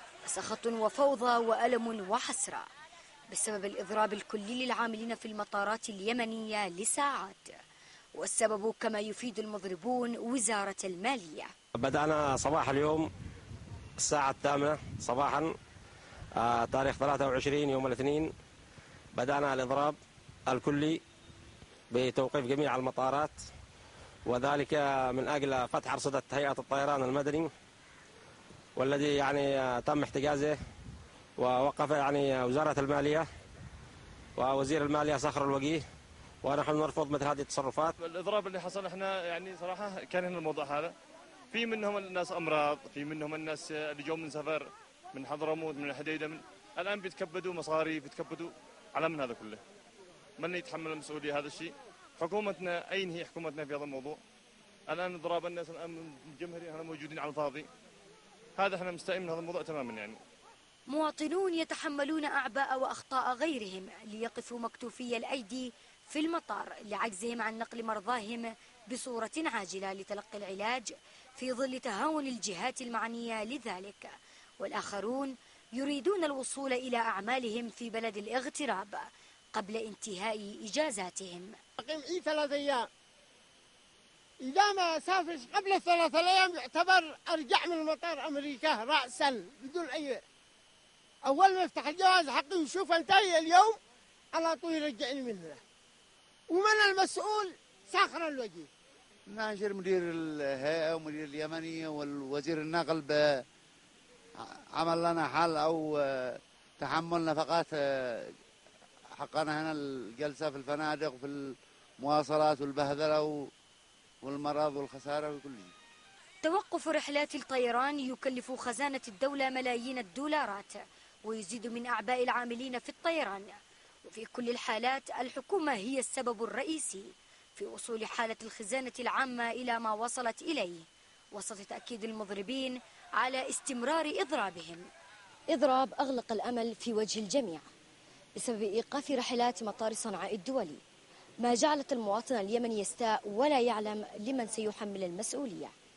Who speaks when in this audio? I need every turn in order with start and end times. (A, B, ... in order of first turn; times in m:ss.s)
0:00.3-0:02.7 A
0:03.3-0:07.5 A
0:08.2-0:11.5 A
0:11.8-0:13.1 B
0:14.0-0:15.5 B
0:16.4-0:18.3 B
0:19.1-0:21.0 B
0:21.9-0:23.4 B
0:24.3-0:27.5 B
0:28.8-0:30.6 B
0:31.4-0:33.3 B
0:34.4-0:35.8 B
0:36.4-0:37.9 B
0:38.0-0:40.9 C
0:41.5-0:49.6 C
0:50.4-0:54.2 C
0:54.9-0:57.7 C
0:58.6-1:00.2 C
1:00.9-1:21.6 A
1:21.8-1:22.9 D
1:24.4-1:30.2 D
1:31.2-1:33.8 D
1:34.3-1:35.6 D
1:36.5-1:38.7 D
1:39.3-1:43.4 E
1:44.4-1:48.3 E
1:49.2-1:53.5 E
1:54.2-1:55.7 E
1:56.4-2:14.9 A
2:15.5-2:17.6 A
2:18.4-2:20.8 A
2:21.4-2:25.7 A